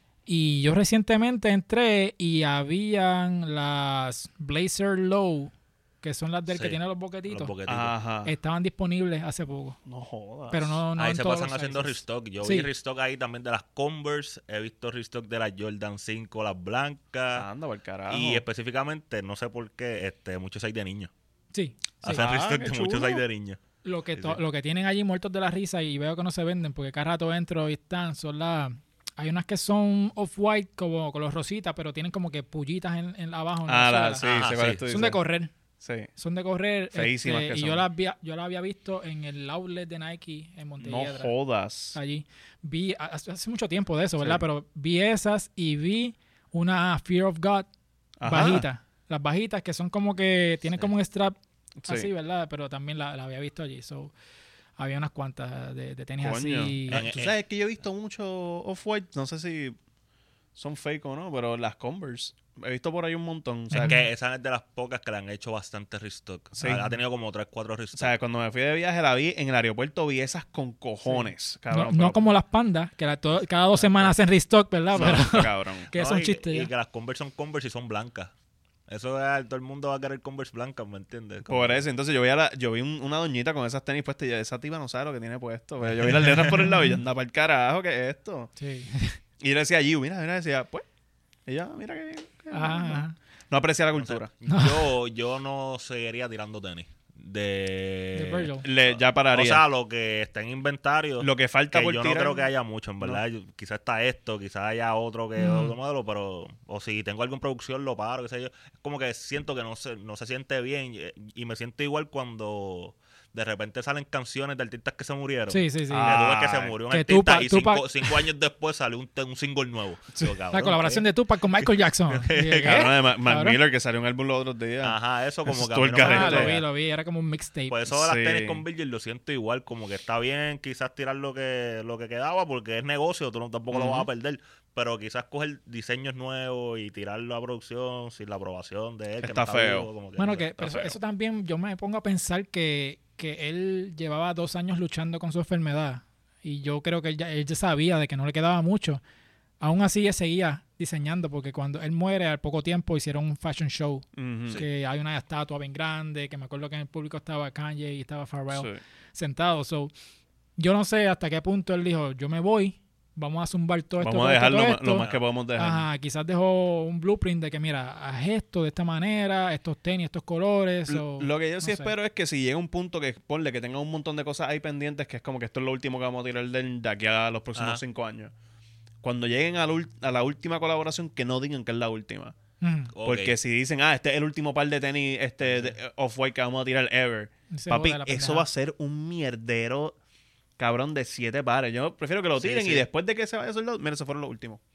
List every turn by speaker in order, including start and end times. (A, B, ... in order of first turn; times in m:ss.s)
0:00.3-0:07.5 A
0:06.5-0:07.9 B
0:07.7-0:08.3 C
0:08.2-0:09.8 A
0:09.8-0:10.8 C
0:10.5-0:12.7 A
0:11.0-0:17.4 B
0:17.3-0:18.4 C
0:18.1-0:21.1 B
0:21.5-0:22.3 A
0:22.0-0:23.6 B
0:22.1-0:23.2 C
0:23.8-0:34.3 A
0:33.7-0:35.2 C
0:34.2-0:34.9 B
0:34.8-0:35.5 A
0:35.8-0:36.1 C
0:36.2-0:41.3 A
0:36.9-0:37.8 C
0:40.8-0:42.0 C
0:41.9-0:47.7 A
0:48.2-0:48.7 C
0:48.2-0:54.1 A
0:51.8-0:52.1 C
0:54.8-0:57.1 A
0:56.2-0:59.8 C
0:56.9-0:57.3 B
1:00.6-1:04.0 C
1:03.7-1:04.1 A
1:03.7-1:08.1 B
1:06.6-1:06.9 C
1:06.6-1:06.9 A
1:08.0-1:12.2 C
1:11.0-1:16.7 A
1:14.9-1:15.9 C
1:15.9-1:18.3 B
1:18.9-1:21.8 B
1:21.5-1:28.5 C
1:26.4-1:27.0 A
1:28.6-1:29.2 A
1:29.4-1:30.8 C
1:31.5-1:34.3 C
1:32.5-1:33.2 A
1:34.0-2:01.0 B
1:34.5-1:34.9 A
1:38.1-1:38.7 A
1:38.6-1:39.6 C
1:41.2-1:42.5 C
1:45.4-1:45.7 A
1:55.5-1:56.2 A
1:55.9-1:56.7 C
1:56.9-1:58.2 A
2:00.5-2:03.6 A
2:02.1-2:02.9 B
2:02.6-2:06.5 C
2:04.8-2:06.6 B
2:06.0-2:07.8 A
2:07.7-2:20.8 B
2:07.9-2:08.6 C
2:13.7-2:14.1 C
2:19.2-2:19.9 C
2:20.2-2:29.0 A
2:20.6-2:20.9 C
2:29.6-2:39.9 A
2:34.2-2:34.6 C
2:38.5-2:38.8 C
2:40.6-2:51.9 A
2:44.0-2:45.9 C
2:45.0-2:45.2 B
2:50.9-2:58.3 C
2:57.6-2:57.8 B
2:59.0-3:02.4 C
3:02.6-3:02.9 A
3:02.9-3:03.4 B
3:03.0-3:10.0 C
3:05.4-3:05.7 B
3:07.5-3:08.5 A
3:10.6-3:14.6 C
3:12.4-3:12.8 B